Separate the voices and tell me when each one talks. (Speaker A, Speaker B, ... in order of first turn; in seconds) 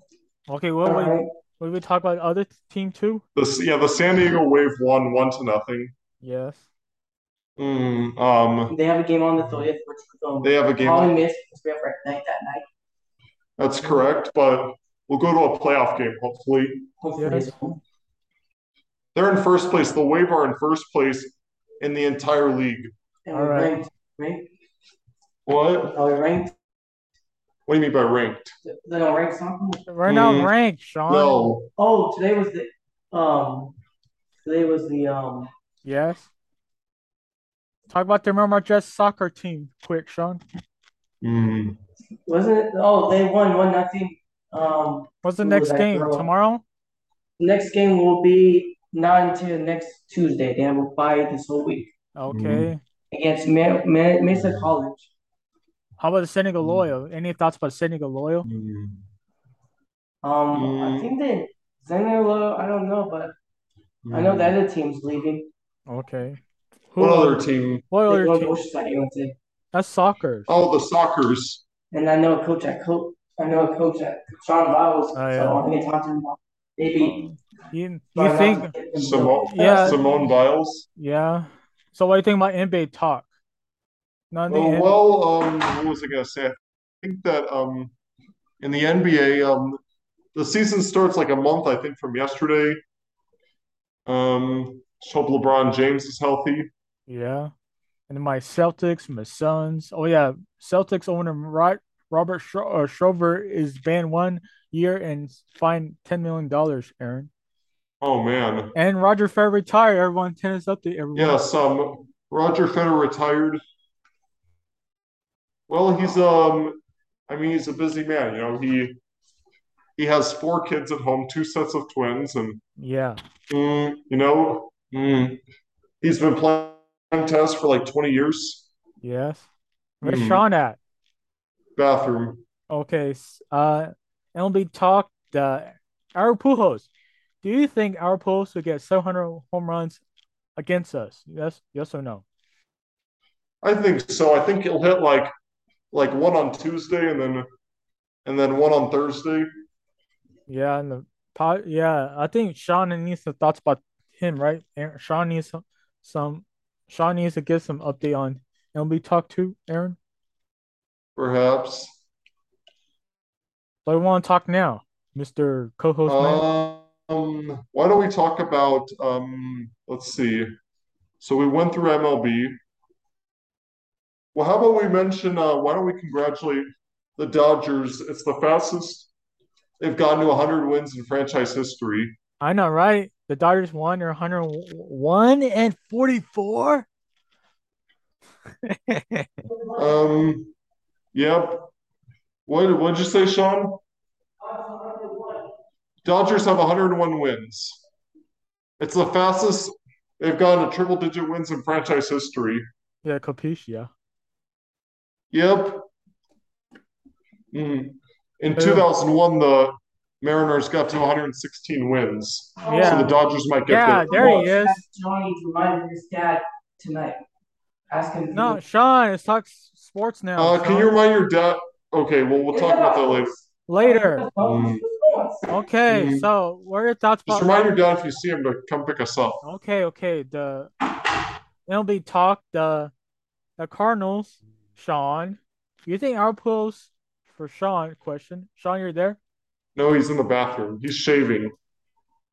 Speaker A: 0.5-3.2, 6.2-6.7, 17.2-17.8, 23.3-23.7, 29.9-31.5, 35.8-36.3, 37.9-40.4, 45.2-46.6, 52.1-52.8, 56.0-58.5, 65.9-66.4, 66.9-68.5, 69.7-70.5, 75.1-75.6, 77.0-78.7, 79.4-80.0, 81.0-83.3, 84.3-84.9, 97.1-97.5, 98.1-107.3, 108.7-111.4, 122.8-123.2, 129.0-129.5, 130.0-130.8, 132.7-136.9, 137.4-140.0, 140.6-142.2, 150.5-160.0, 163.8-166.4, 182.4-186.9, 188.6-189.4, 203.0-203.9, 208.6-208.9, 212.6-214.8, 218.3-220.9, 223.7-224.3, 225.5-227.7, 229.4-230.7, 231.7-232.9, 233.6-239.2
Speaker B: 0.8-1.3, 8.7-12.6, 17.0-17.8, 23.3-24.5, 25.9-26.5, 28.6-29.9, 31.8-33.7, 34.4-35.5, 42.2-46.3, 47.4-51.9, 53.1-55.1, 60.2-63.3, 64.1-65.5, 68.1-69.3, 71.9-77.2, 78.1-80.3, 194.5-195.4, 212.6-213.2, 214.1-217.2, 217.9-218.6, 222.5-225.5
Speaker C: 3.3-5.9, 7.6-8.7, 10.4-11.2, 13.6-16.9, 19.1-22.9, 25.4-26.0, 27.7-28.5, 30.1-30.5, 31.1-31.7, 41.2-41.8, 52.3-52.7, 54.3-54.7, 56.6-56.9, 58.4-59.0, 60.5-61.1, 64.0-64.5, 67.0-67.8, 70.5-71.6, 78.9-80.9, 84.5-87.9, 88.6-89.8, 90.3-92.8, 94.0-96.7, 108.0-108.7, 111.1-113.6, 115.7-119.0, 120.0-122.6, 123.5-125.4, 126.0-128.7, 130.0-130.4, 131.8-132.4, 143.6-145.3, 145.9-147.4, 148.2-149.5, 161.2-162.0, 166.1-170.5, 171.2-172.6, 174.3-176.7, 177.2-179.1, 179.8-182.1, 189.8-190.5, 191.1-191.7, 192.4-193.8, 196.0-197.8, 198.8-202.6, 205.3-205.9, 207.5-214.4, 220.4-223.3, 224.4-224.8, 225.9-226.3, 227.3-229.4, 239.7-241.5